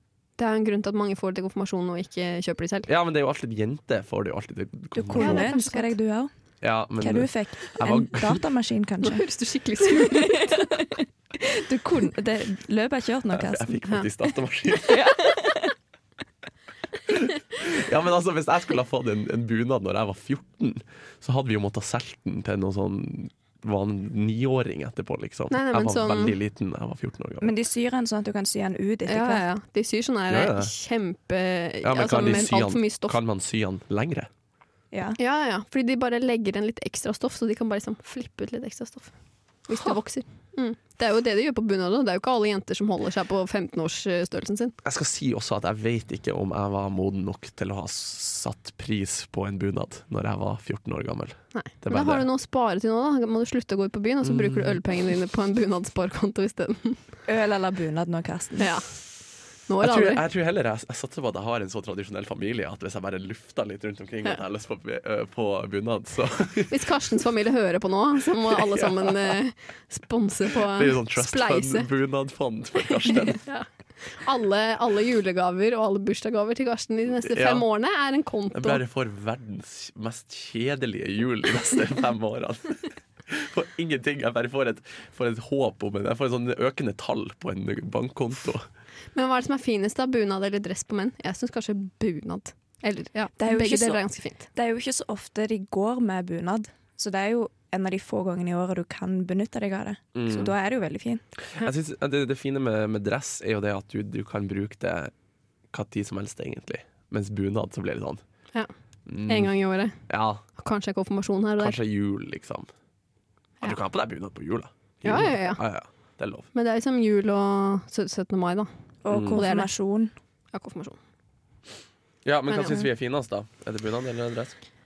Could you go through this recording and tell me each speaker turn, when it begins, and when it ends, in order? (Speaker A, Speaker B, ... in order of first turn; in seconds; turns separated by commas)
Speaker A: 0.4-2.9, Speaker B: 2.9-5.5, Speaker C: 5.0-6.3, Speaker A: 5.2-5.9, Speaker B: 6.6-8.4, Speaker C: 7.0-9.2, Speaker A: 9.0-10.8, Speaker C: 9.8-13.8, Speaker B: 13.3-15.1, Speaker C: 14.9-15.7, Speaker B: 17.1-27.5, Speaker A: 25.5-26.4, Speaker C: 27.4-29.5, Speaker A: 29.1-33.2, Speaker B: 30.3-30.7, Speaker B: 31.8-34.3, Speaker C: 34.9-35.2, Speaker A: 35.2-44.8, Speaker B: 44.8-52.3, Speaker A: 51.5-57.0, Speaker B: 54.2-54.8, Speaker C: 57.3-58.7, Speaker A: 58.6-58.9, Speaker A: 59.7-60.2, Speaker B: 59.8-66.8, Speaker A: 66.7-71.9, Speaker B: 68.6-69.2, Speaker B: 70.7-73.4, Speaker A: 73.4-78.8, Speaker B: 77.3-77.7, Speaker B: 78.5-88.7, Speaker A: 89.1-94.4, Speaker C: 93.4-101.2, Speaker B: 100.2-100.5, Speaker B: 101.6-105.1, Speaker B: 105.7-108.2, Speaker B: 109.1-109.5, Speaker A: 109.3-110.0, Speaker B: 110.1-110.4, Speaker A: 110.6-111.8, Speaker B: 111.6-112.7, Speaker B: 113.6-116.5, Speaker A: 115.0-115.6, Speaker A: 116.5-118.7, Speaker C: 119.0-120.1, Speaker B: 119.1-119.4, Speaker A: 119.3-119.7, Speaker A: 120.5-121.0, Speaker B: 122.2-124.5, Speaker A: 122.5-122.8